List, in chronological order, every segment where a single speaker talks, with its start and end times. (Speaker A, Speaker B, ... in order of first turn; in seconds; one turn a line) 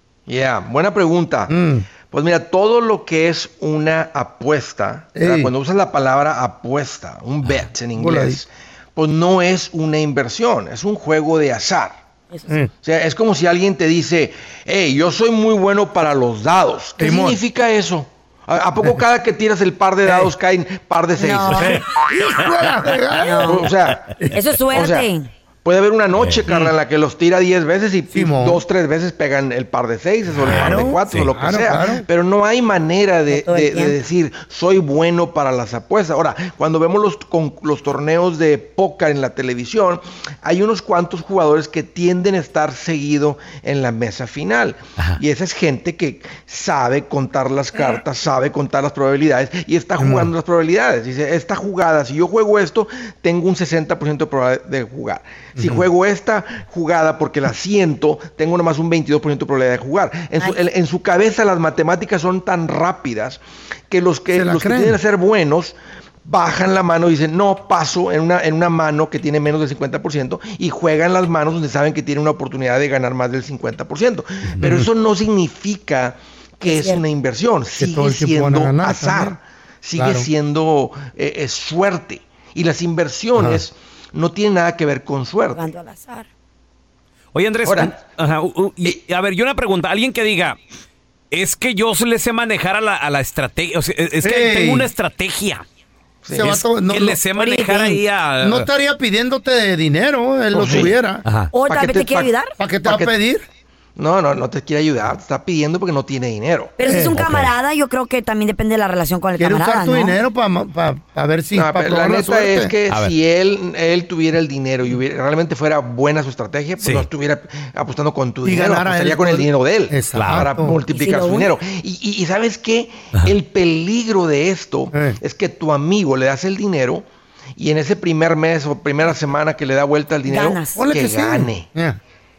Speaker A: 0.3-1.5
Speaker B: 1.5-1.9
Speaker A: 2.0-12.0
Speaker B: 5.2-5.5
Speaker B: 8.0-8.4
Speaker A: 12.8-21.8
Speaker B: 17.0-17.4
Speaker B: 20.1-20.3
Speaker C: 21.2-21.8
Speaker B: 22.1-23.6
Speaker C: 23.2-23.7
Speaker A: 23.4-24.1
Speaker C: 24.3-25.3
Speaker A: 24.7-25.1
Speaker A: 25.6-85.7
Speaker D: 26.2-26.7
Speaker B: 28.1-28.6
Speaker D: 30.4-31.3
Speaker B: 30.4-32.0
Speaker C: 33.3-33.9
Speaker B: 50.0-50.3
Speaker B: 55.5-55.8
Speaker B: 64.3-65.0
Speaker C: 76.7-77.0
Speaker B: 77.8-79.4
Speaker B: 80.0-80.3
Speaker B: 83.3-83.6
Speaker C: 85.5-86.3
Speaker D: 87.3-90.6
Speaker A: 87.7-87.9
Speaker D: 91.3-95.6
Speaker B: 94.2-94.9
Speaker A: 96.2-96.6
Speaker B: 96.3-97.7
Speaker D: 96.4-98.7
Speaker C: 97.3-98.0
Speaker B: 98.4-101.2
Speaker A: 100.5-100.9
Speaker D: 101.2-101.5
Speaker C: 101.5-102.5
Speaker A: 101.7-102.3
Speaker B: 102.6-103.4
Speaker A: 102.8-103.1
Speaker A: 104.0-106.7
Speaker C: 106.8-110.2
Speaker B: 106.8-107.2
Speaker D: 107.1-107.5
Speaker B: 109.4-112.7
Speaker A: 111.5-127.0
Speaker D: 112.9-113.1
Speaker D: 116.8-117.1
Speaker B: 118.4-120.8
Speaker D: 120.1-120.5
Speaker C: 120.9-121.5
Speaker B: 124.9-125.2
Speaker A: 127.6-131.7
Speaker C: 130.3-130.8
Speaker B: 130.8-132.0